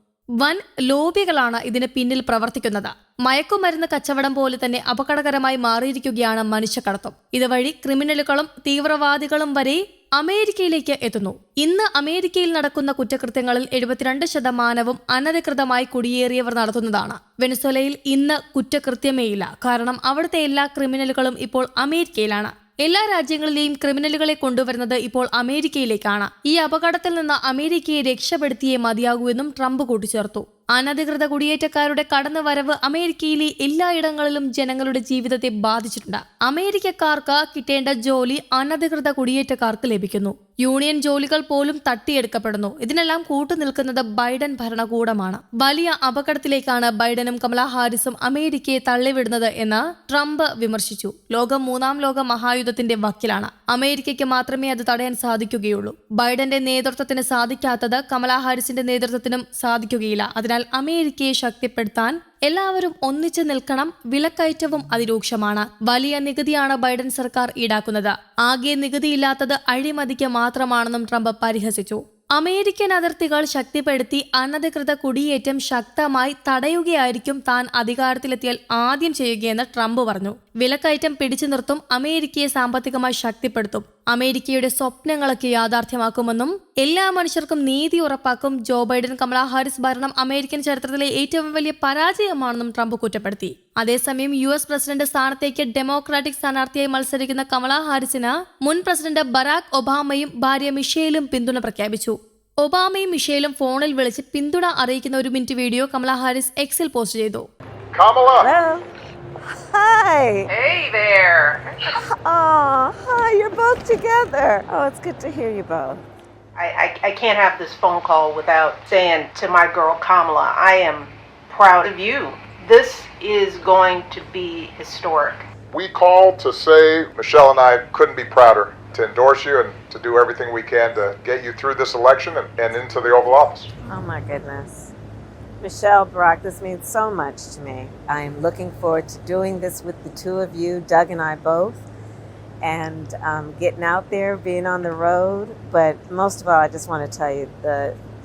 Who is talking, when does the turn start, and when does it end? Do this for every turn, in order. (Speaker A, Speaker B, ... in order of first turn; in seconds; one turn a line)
Speaker A: 0.4-107.5
Speaker B: 107.9-108.5
Speaker C: 108.4-108.8
Speaker C: 109.5-110.5
Speaker D: 110.5-111.6
Speaker C: 111.9-116.0
Speaker D: 116.6-125.5
Speaker B: 125.7-133.7
Speaker C: 133.9-134.9
Speaker C: 135.6-141.8
Speaker C: 142.6-148.0